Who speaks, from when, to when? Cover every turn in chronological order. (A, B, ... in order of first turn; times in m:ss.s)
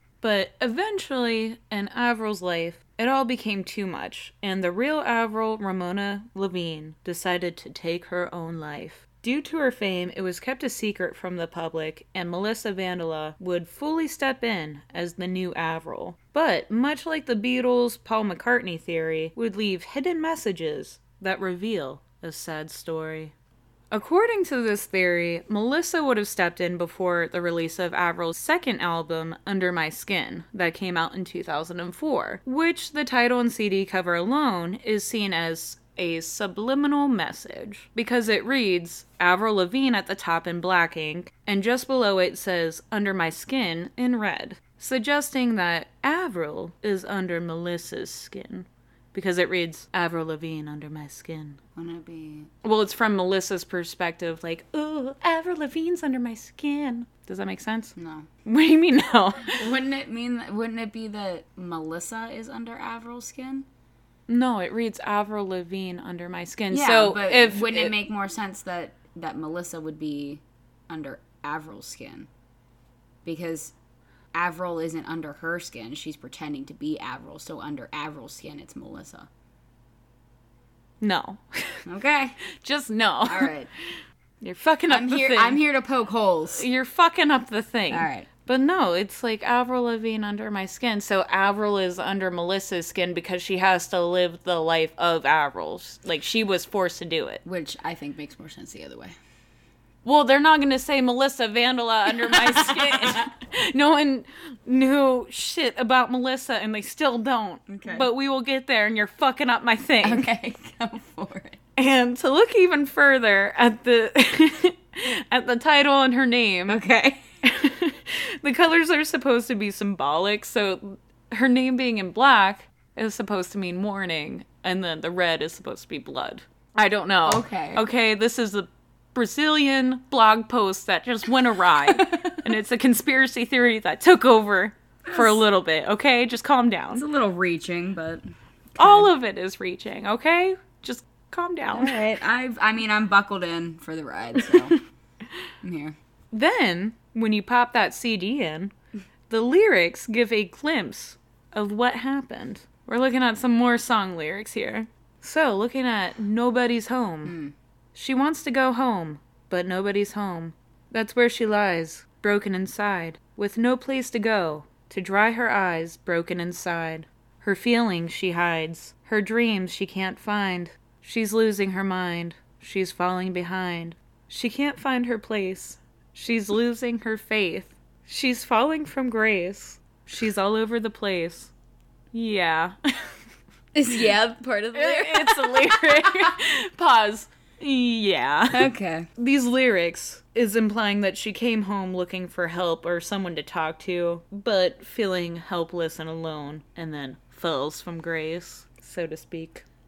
0:00.2-0:23.4 A
0:23.9-0:51.6 A
0:51.8-0:52.5 B
0:52.6-0:59.7 A
0:58.0-0:58.3 B
0:59.5-1:03.7 B
1:04.3-1:07.9 A
1:06.7-1:12.3 B
1:13.2-1:13.8 B
1:14.3-1:19.3 B
1:21.0-1:21.8 A
1:21.9-1:22.4 B
1:22.6-1:25.6 A
1:23.3-1:23.7 B
1:24.9-1:26.7 B
1:26.5-1:37.4 A
1:27.9-1:28.3 B
1:37.4-1:39.2 B
1:40.0-1:50.3 A
1:42.1-1:43.3 B
1:47.7-1:48.1 B
1:50.0-1:51.6 B
1:51.8-1:56.8 A
1:56.7-1:57.2 B
1:57.4-2:17.1 A
2:07.3-2:07.8 B
2:11.7-2:12.4 B
2:15.0-2:15.4 B
2:17.0-2:18.2 B
2:18.8-2:19.1 B
2:18.8-2:22.0 A
2:21.7-2:24.8 B
2:25.6-2:26.0 B
2:26.3-2:28.7 A
2:29.3-2:37.4 A
2:37.3-2:37.5 B
2:38.0-3:01.5 A
3:02.1-3:03.1 A
3:03.7-3:06.3 B
3:04.7-3:19.7 A
3:08.5-3:09.1 B